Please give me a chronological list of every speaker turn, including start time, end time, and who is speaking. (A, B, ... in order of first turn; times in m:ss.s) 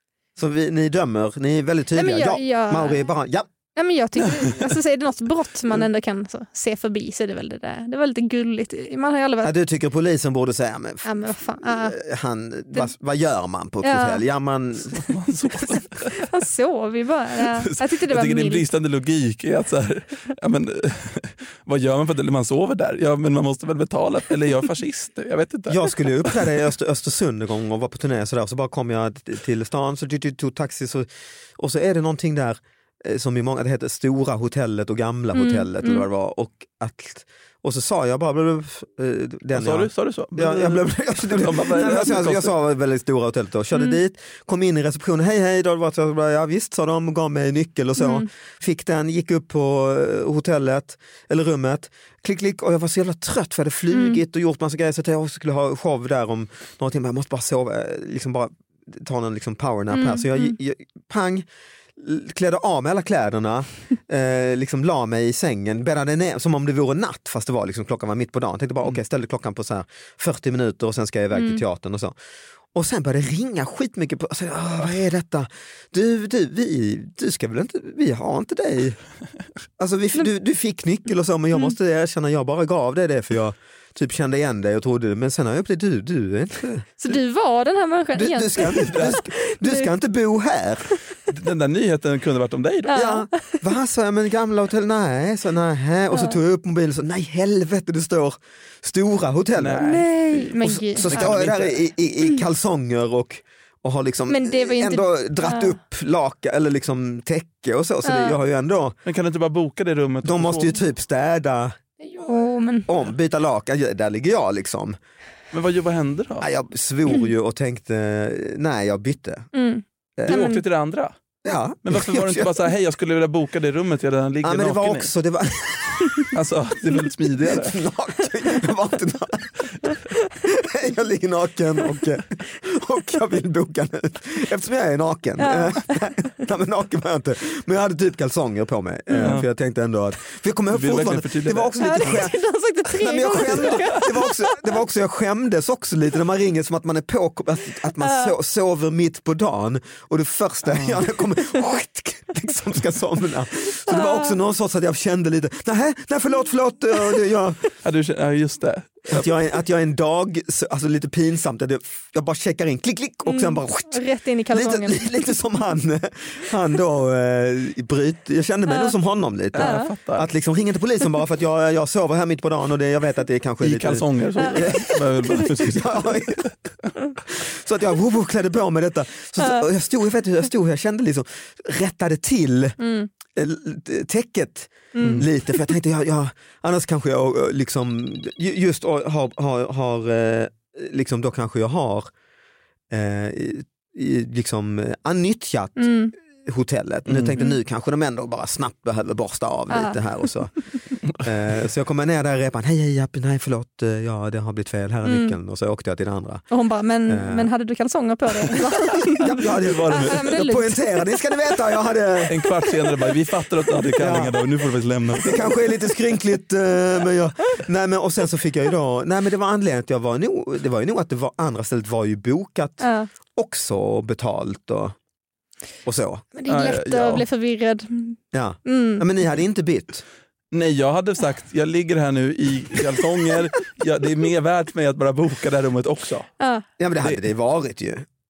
0:00.4-0:03.5 A
0:01.9-0:03.0 B
0:03.7-0:09.5 B
0:09.4-0:15.1 A
0:11.0-0:12.0 B
0:13.8-0:14.2 B
0:14.9-0:16.2 C
0:15.7-0:18.6 B
0:17.4-0:26.5 C
0:25.7-1:01.4 A
0:35.3-0:36.0 B
0:39.5-0:42.5 C
0:48.0-0:48.3 B
0:53.9-0:54.2 B
0:59.9-1:00.5 B
1:02.0-1:12.1 A
1:11.3-1:11.6 B
1:12.7-1:19.0 A
1:19.8-1:26.9 A
1:27.0-1:29.9 B
1:28.1-1:31.0 A
1:28.9-1:29.2 C
1:31.3-1:33.0 C
1:32.9-1:33.6 B
1:32.9-1:49.0 A
1:36.1-1:36.4 B
1:39.6-1:40.1 C
1:39.8-1:41.3 B
1:41.1-1:41.9 C
1:44.3-1:45.8 B
1:48.0-1:48.4 B
1:49.0-1:50.8 C
1:50.2-1:51.8 A
1:52.0-1:53.0 B
1:52.9-1:55.0 A
1:55.5-1:56.5 C
1:56.4-1:59.5 A
1:59.5-2:00.6 B
2:00.2-2:00.5 A
2:00.3-2:01.1 C
2:01.4-2:02.5 A
2:01.8-2:05.1 C
2:04.4-2:06.3 A
2:06.3-2:07.8 C
2:07.4-2:09.7 A
2:09.9-2:10.3 B
2:10.4-2:37.7 A
2:15.4-2:16.0 B
2:19.1-2:19.4 B
2:19.2-2:19.5 C
2:20.7-2:22.2 C
2:21.8-2:24.8 B
2:28.0-2:28.3 B
2:30.7-2:31.0 C
2:33.9-2:34.4 B
2:37.8-2:39.2 C
2:39.1-2:56.5 A
2:43.2-2:45.3 B
2:48.7-2:48.9 B
2:49.5-2:50.3 C
2:49.6-2:49.9 B
2:53.6-2:56.5 C
2:57.2-3:02.8 A
2:59.4-2:59.6 B
3:02.8-3:03.1 B
3:03.3-3:12.1 A
3:04.9-3:05.2 B
3:05.0-3:05.2 C
3:12.9-3:20.5 A
3:15.8-3:16.1 B
3:17.1-3:17.3 C
3:19.7-3:20.0 B
3:21.2-3:26.4 A
3:25.0-3:25.3 B
3:26.5-3:31.3 B
3:27.1-3:27.5 A
3:29.1-3:32.4 A
3:29.5-3:30.2 C
3:32.3-3:35.6 C
3:34.0-3:34.4 A
3:35.2-3:45.0 A
3:42.8-3:43.1 B
3:45.8-3:46.3 A
3:46.3-3:49.0 B
3:46.5-3:47.2 C
3:48.3-3:50.0 A
3:50.5-3:56.3 C
3:56.4-3:56.6 B
3:56.8-3:58.0 A